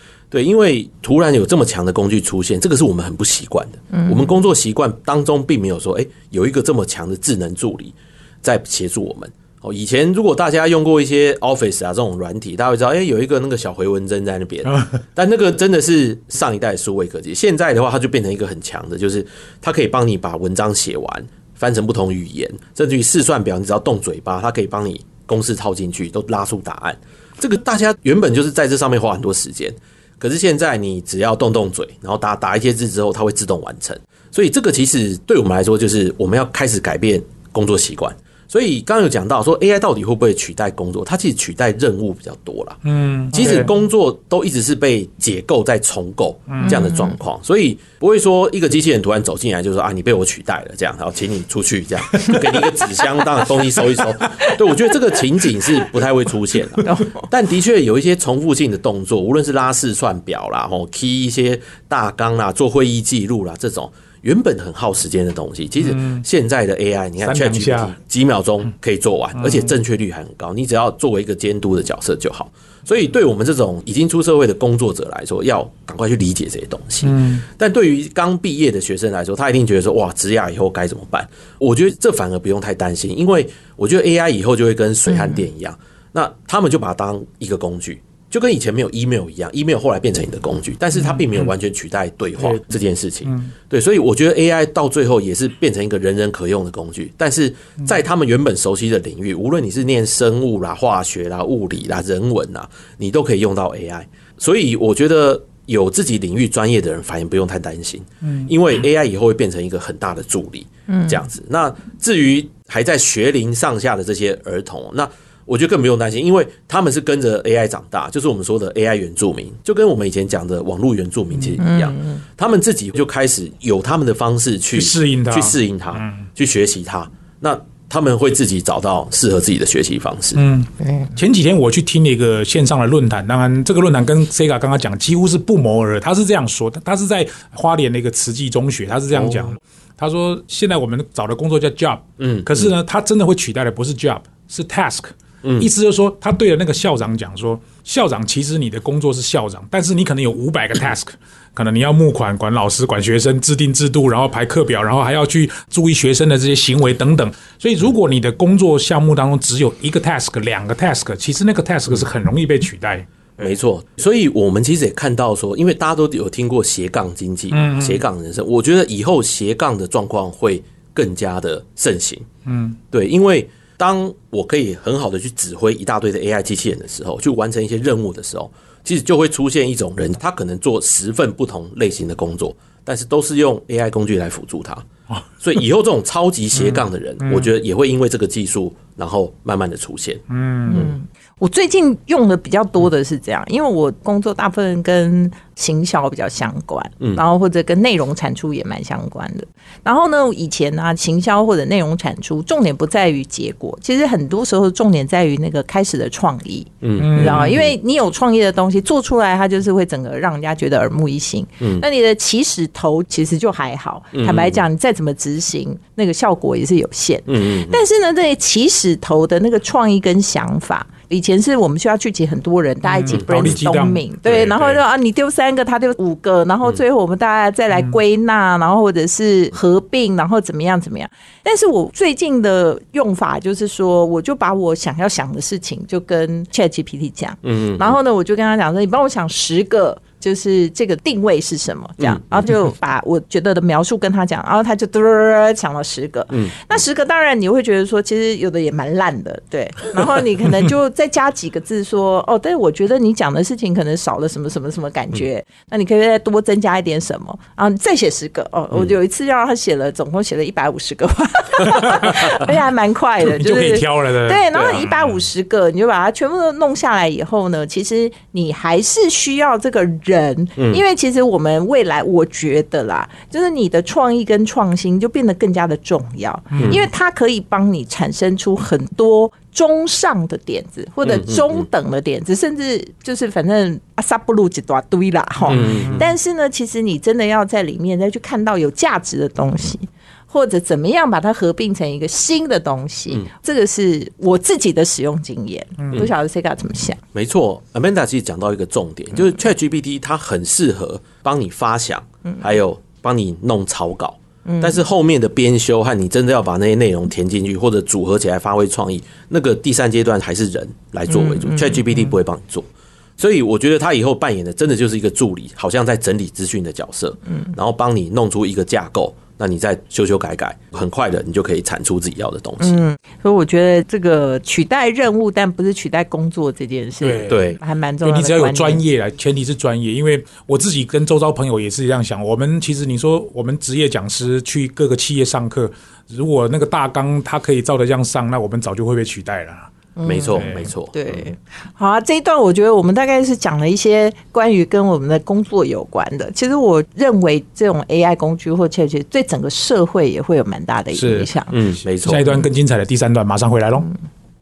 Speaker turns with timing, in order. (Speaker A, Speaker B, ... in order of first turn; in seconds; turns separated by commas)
Speaker A: 0.3-130.4, Speaker B: 3.9-4.2, Speaker C: 14.7-15.0, Speaker C: 42.9-43.7, Speaker C: 46.5-46.8, Speaker B: 46.6-47.2, Speaker B: 56.8-57.3, Speaker C: 65.8-66.2, Speaker C: 67.2-67.9, Speaker C: 69.4-69.7, Speaker C: 77.0-77.4, Speaker C: 92.4-92.6, Speaker C: 93.3-93.5, Speaker C: 108.2-108.5, Speaker B: 110.9-111.2, Speaker B: 121.6-122.2, Speaker C: 124.7-126.3, Speaker C: 130.3-163.1, Speaker B: 130.8-131.1, Speaker A: 139.1-139.5, Speaker A: 142.2-142.7, Speaker A: 145.4-145.7, Speaker A: 163.4-172.3, Speaker C: 167.5-168.0, Speaker C: 172.5-172.8, Speaker A: 172.9-184.9, Speaker A: 185.4-190.9, Speaker C: 186.6-187.5, Speaker C: 190.3-190.8, Speaker B: 190.7-297.0, Speaker A: 206.8-207.7, Speaker C: 207.0-207.6, Speaker A: 214.1-214.6, Speaker A: 217.3-217.8, Speaker C: 222.8-224.8, Speaker A: 223.1-223.6, Speaker A: 237.4-238.0, Speaker A: 242.0-242.5, Speaker A: 246.3-246.8, Speaker C: 261.6-262.6, Speaker C: 263.2-265.2, Speaker A: 270.6-270.8, Speaker C: 276.5-276.8, Speaker A: 281.0-281.7, Speaker C: 285.4-286.1, Speaker A: 285.5-286.1, Speaker A: 297.1-322.8, Speaker B: 304.4-304.8, Speaker B: 311.1-311.9, Speaker B: 322.6-328.8, Speaker C: 327.0-339.7, Speaker A: 327.3-327.6, Speaker B: 339.9-351.5, Speaker A: 340.0-341.2, Speaker C: 340.3-340.7, Speaker C: 350.9-351.3, Speaker A: 351.5-352.3, Speaker C: 352.0-353.9